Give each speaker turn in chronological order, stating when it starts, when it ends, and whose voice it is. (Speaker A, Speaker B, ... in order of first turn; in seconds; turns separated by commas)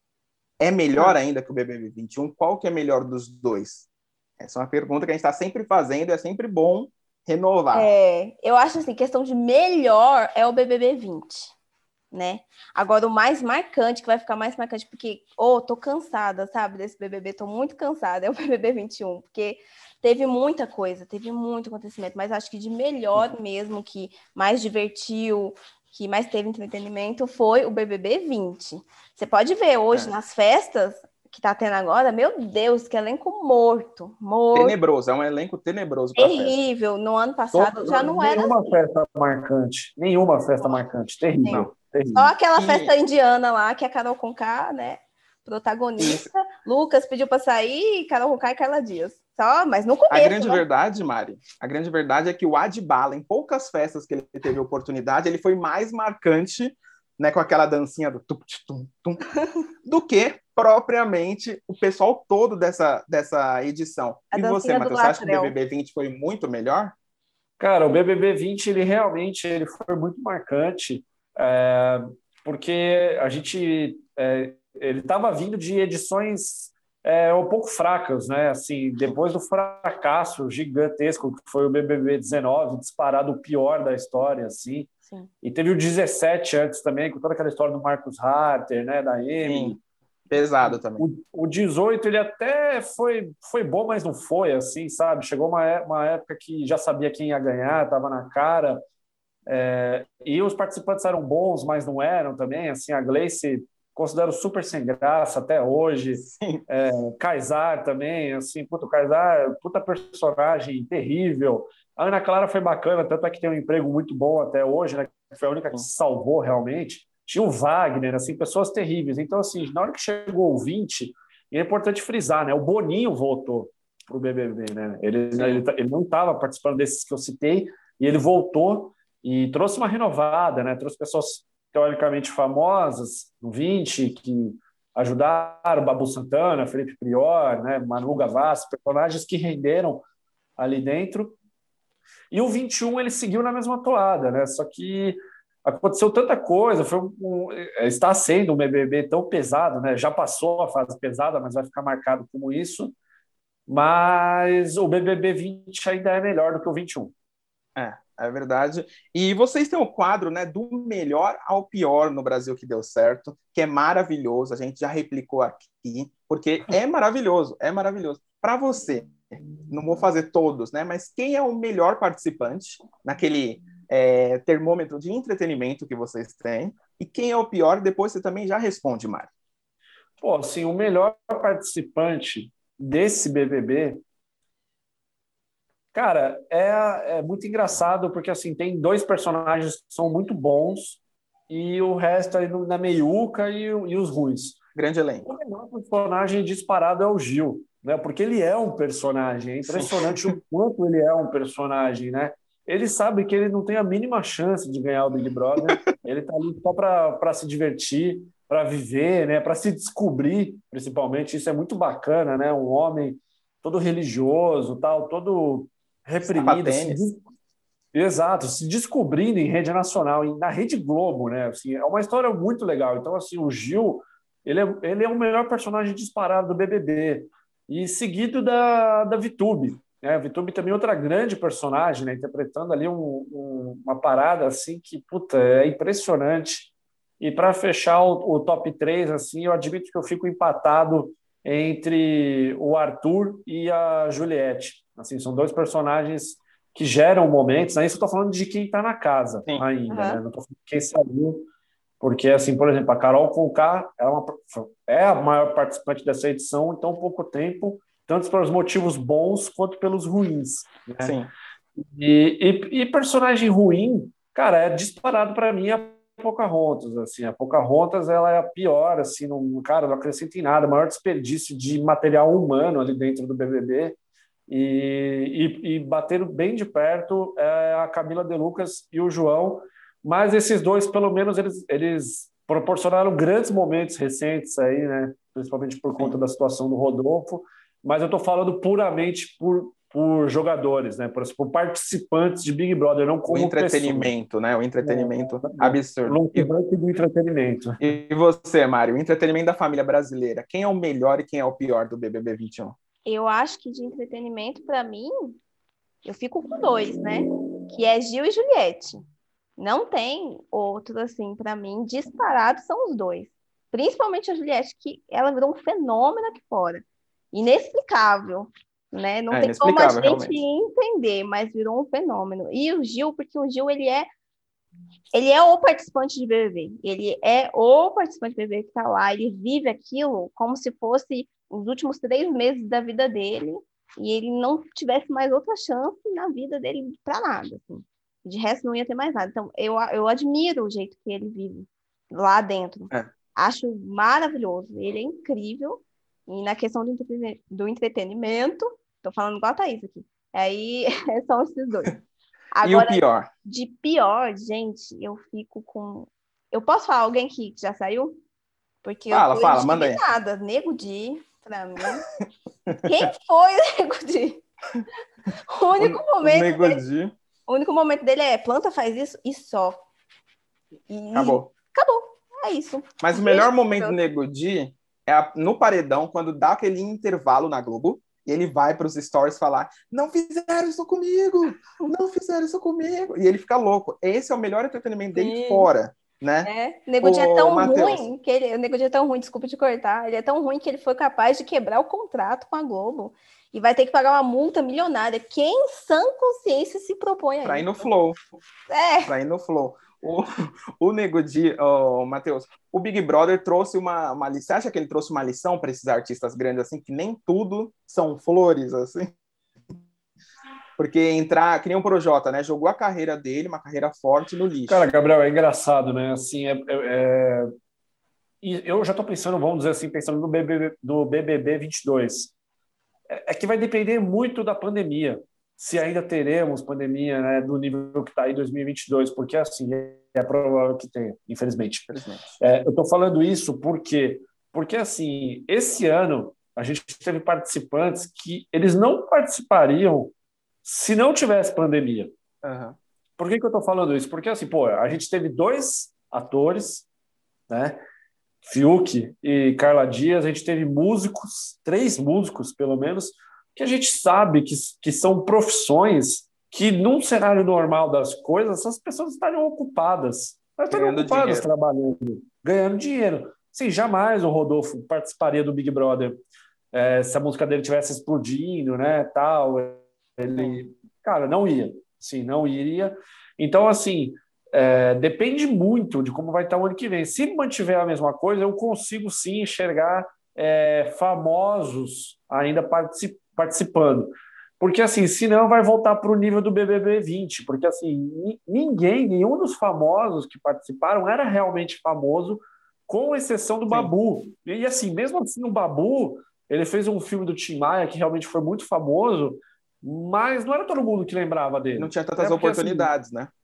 Speaker A: 0.6-3.9, Speaker A: 4.4-7.9, Speaker B: 7.7-11.5, Speaker B: 12.1-34.8, Speaker A: 34.5-36.5, Speaker B: 36.2-38.7, Speaker C: 37.5-42.3, Speaker B: 42.1-50.6, Speaker A: 42.6-42.9, Speaker A: 46.0-46.3, Speaker A: 50.1-59.2, Speaker A: 59.8-67.0, Speaker B: 64.3-65.5, Speaker C: 67.6-84.9, Speaker C: 85.4-89.8, Speaker A: 89.4-89.8, Speaker A: 90.3-91.1, Speaker C: 90.7-98.8, Speaker C: 99.5-140.1, Speaker A: 106.2-106.6, Speaker A: 125.3-125.6, Speaker C: 140.6-141.4, Speaker C: 142.3-152.9, Speaker C: 153.7-157.1, Speaker A: 157.8-179.3, Speaker C: 180.2-184.0, Speaker C: 185.9-194.6, Speaker A: 194.8-195.3, Speaker C: 195.2-217.2, Speaker A: 199.7-200.1, Speaker A: 216.3-217.0, Speaker C: 217.9-251.5, Speaker B: 249.9-250.2, Speaker C: 252.0-261.2, Speaker A: 261.0-261.3, Speaker C: 261.8-274.0, Speaker C: 274.5-294.1, Speaker A: 293.3-296.5, Speaker C: 294.8-297.8, Speaker A: 297.8-302.8, Speaker B: 303.1-305.4, Speaker B: 306.1-309.1, Speaker B: 309.6-324.1, Speaker A: 319.3-320.3, Speaker B: 325.1-352.0, Speaker B: 352.5-358.2, Speaker A: 352.6-353.3, Speaker B: 358.8-362.1, Speaker A: 359.1-360.0, Speaker A: 362.7-363.1, Speaker B: 362.8-364.4, Speaker B: 365.5-366.8, Speaker A: 365.8-367.1, Speaker B: 367.5-369.8, Speaker B: 370.9-374.0, Speaker A: 371.1-371.5, Speaker A: 373.0-386.5, Speaker B: 385.1-385.7, Speaker B: 386.4-397.9, Speaker A: 387.0-388.1, Speaker A: 397.4-398.2, Speaker B: 398.7-399.1, Speaker A: 399.1-409.1, Speaker A: 410.8-414.9, Speaker C: 414.7-417.5, Speaker C: 418.4-422.3, Speaker C: 423.1-440.1, Speaker A: 431.9-432.3, Speaker C: 440.6-442.1, Speaker A: 442.4-442.8, Speaker C: 443.2-446.9, Speaker C: 447.5-447.8, Speaker C: 448.4-466.2, Speaker A: 460.7-461.4, Speaker C: 466.7-502.9, Speaker A: 501.8-503.3